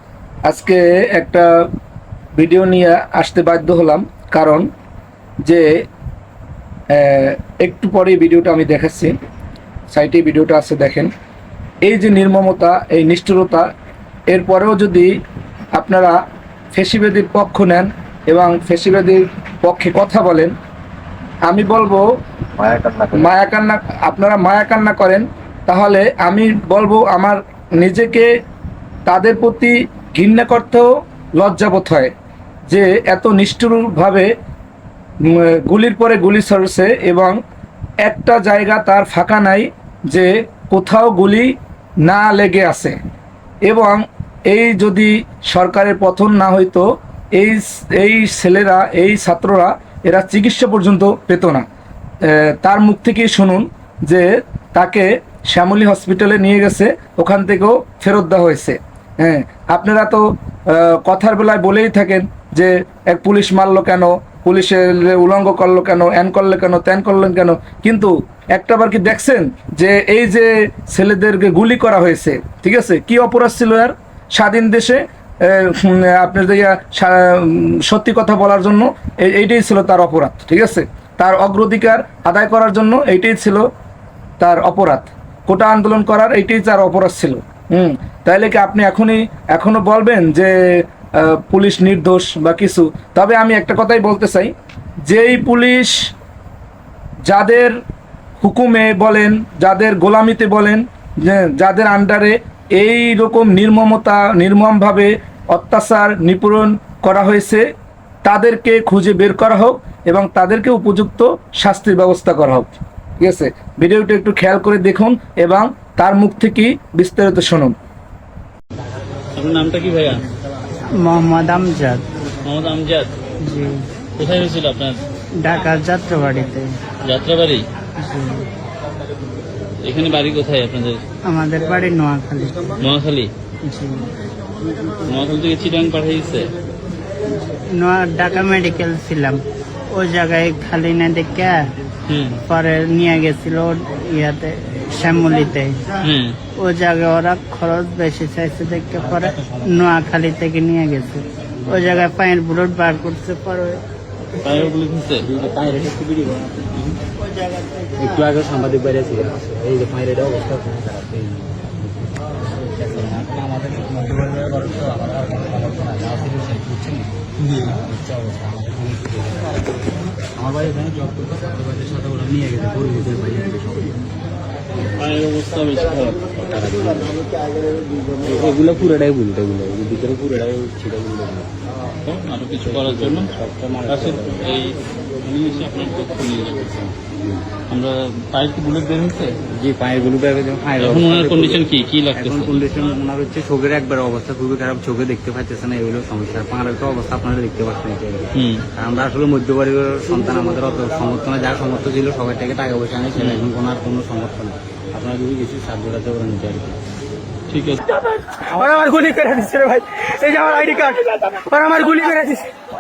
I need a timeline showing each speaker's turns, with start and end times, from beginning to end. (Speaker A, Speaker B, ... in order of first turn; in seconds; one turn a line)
Speaker A: 0.5-1.7
Speaker A: 2.4-4.7
Speaker A: 5.5-5.8
Speaker A: 6.9-9.1
Speaker A: 9.9-11.1
Speaker A: 11.8-13.7
Speaker A: 14.3-15.1
Speaker A: 15.7-16.2
Speaker A: 16.7-20.5
Speaker A: 21.4-22.1
Speaker B: 22.6-23.2
Speaker A: 23.1-28.3
Speaker A: 29.1-32.1
Speaker A: 32.7-34.3
Speaker A: 35.2-37.4
Speaker A: 38.0-43.0
Speaker A: 43.7-51.6
Speaker A: 52.2-83.7
Speaker A: 84.4-94.5
Speaker A: 95.1-96.1
Speaker A: 97.2-97.8
Speaker A: 98.4-107.7
Speaker A: 108.2-117.7
Speaker C: 119.3-120.2
Speaker D: 120.9-122.0
Speaker C: 122.4-123.1
Speaker D: 123.4-123.9
Speaker C: 124.2-125.0
Speaker D: 125.4-126.8
Speaker C: 127.0-127.7
Speaker D: 128.0-128.5
Speaker C: 129.8-131.0
Speaker D: 131.2-132.8
Speaker C: 132.8-133.3
Speaker D: 133.7-134.1
Speaker C: 135.1-136.5
Speaker D: 137.3-141.7
Speaker C: 142.1-142.4
Speaker D: 142.5-145.9
Speaker C: 146.0-146.4
Speaker D: 146.5-153.8
Speaker E: 149.2-149.7
Speaker C: 154.4-155.3
Speaker E: 155.2-156.9
Speaker D: 157.3-157.9
Speaker E: 158.0-174.1
Speaker E: 174.7-175.2
Speaker C: 175.0-176.2
Speaker E: 176.3-177.2
Speaker E: 178.2-181.5
Speaker C: 182.0-183.3
Speaker E: 182.6-184.5
Speaker C: 183.9-186.7
Speaker E: 186.8-187.5
Speaker C: 187.7-189.4
Speaker E: 189.5-206.8
Speaker C: 190.8-192.7
Speaker C: 198.3-198.7
Speaker C: 203.2-203.5
Speaker C: 207.5-207.8
Speaker B: 208.4-212.5